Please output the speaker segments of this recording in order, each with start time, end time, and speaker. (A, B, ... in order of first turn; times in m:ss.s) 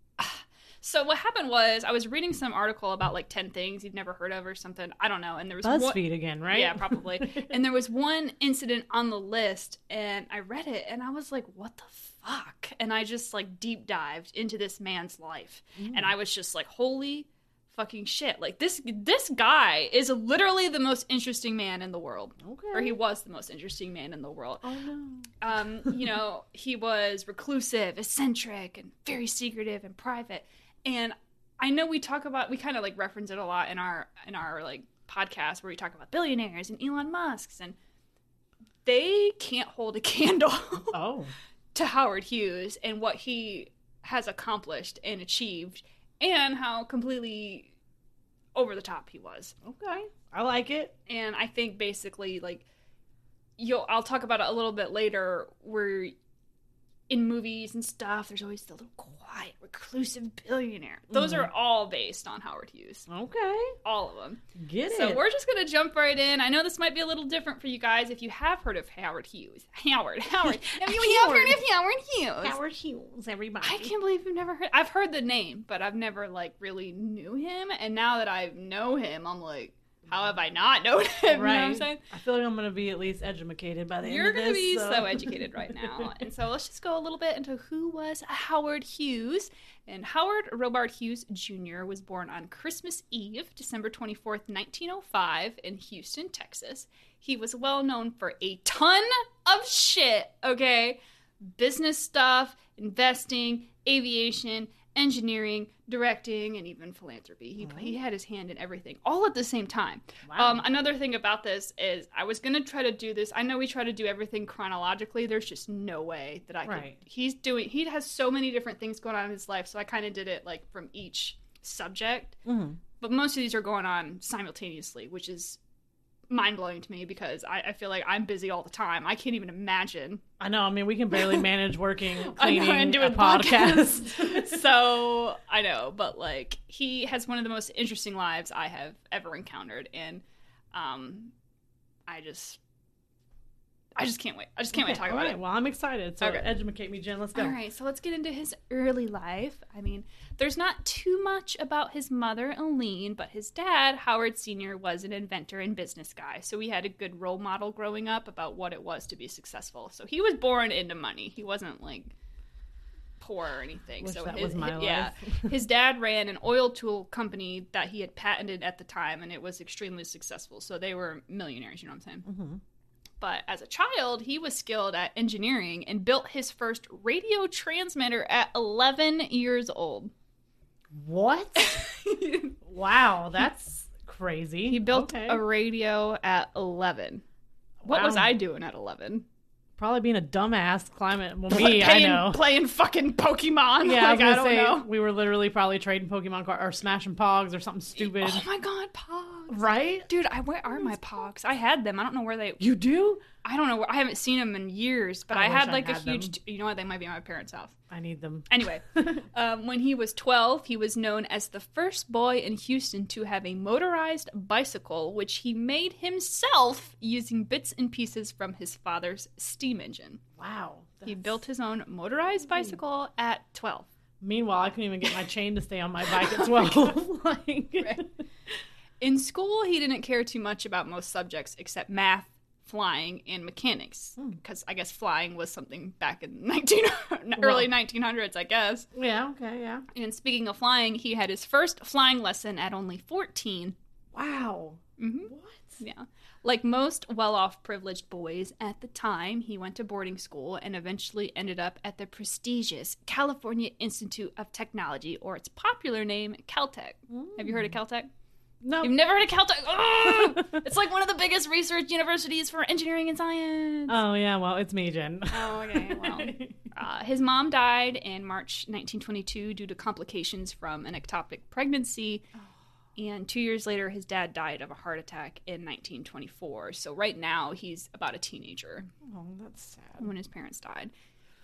0:00.2-0:24.6 A
0:05.6-0:07.5 B
0:15.8-0:16.1 B
0:22.4-0:23.0 B
0:24.6-0:25.4 B
0:25.4-0:37.8 A
0:38.8-0:41.0 A
0:40.9-0:41.3 B
0:41.7-0:47.7 A
0:48.6-0:49.5 A
0:49.6-0:50.9 B
0:51.1-0:52.6 A
0:53.6-0:56.2 A
0:57.1-1:03.1 A
1:01.1-1:01.5 B
1:03.1-1:03.8 B
1:03.8-1:12.6 A
1:04.6-1:05.2 B
1:10.4-1:11.6 B
1:12.4-1:13.9 B
1:13.6-1:22.0 A
1:21.3-1:26.1 B
1:24.0-2:02.4 A
1:47.6-1:47.9 B
1:50.2-1:50.6 B
1:56.6-1:57.0 B
2:02.5-2:02.8 B
2:03.0-2:05.6 A
2:06.3-2:10.2 A
2:10.4-2:14.6 B
2:11.1-2:11.4 A
2:12.2-2:21.3 A
2:22.1-2:22.6 A
2:24.0-2:25.4 A
2:24.7-2:27.6 B
2:26.2-2:26.5 A
2:27.4-2:42.1 A
2:43.2-2:52.2 A
2:44.0-2:45.5 B
2:52.2-2:52.6 B
2:53.2-3:00.1 A
3:00.9-3:01.8 B
3:01.6-3:02.6 A
3:02.7-3:05.4 B
3:04.7-3:07.2 A
3:07.8-3:08.4 B
3:07.9-3:09.2 A
3:09.8-3:12.4 B
3:11.5-3:14.9 A
3:13.8-3:18.4 B
3:18.0-3:22.6 A
3:19.5-3:20.1 B
3:22.6-3:23.3 B
3:23.4-3:27.8 A
3:25.3-3:26.4 B
3:27.9-3:29.3 B
3:28.5-3:40.2 A
3:40.4-3:41.4 B
3:41.1-3:43.9 A
3:42.5-3:42.8 B
3:44.2-3:48.1 B
3:46.1-3:47.0 A
3:49.0-3:58.9 A
3:57.4-3:57.7 B
3:58.9-3:59.8 B
3:59.9-4:03.8 A
4:04.1-4:05.8 B
4:05.0-4:18.1 A
4:17.1-4:17.8 B
4:18.6-4:19.0 B
4:18.8-4:24.0 A
4:20.4-4:20.6 B
4:23.9-4:26.7 B
4:25.3-4:32.2 A
4:33.0-4:38.9 A
4:39.0-4:40.1 B
4:40.0-4:40.9 A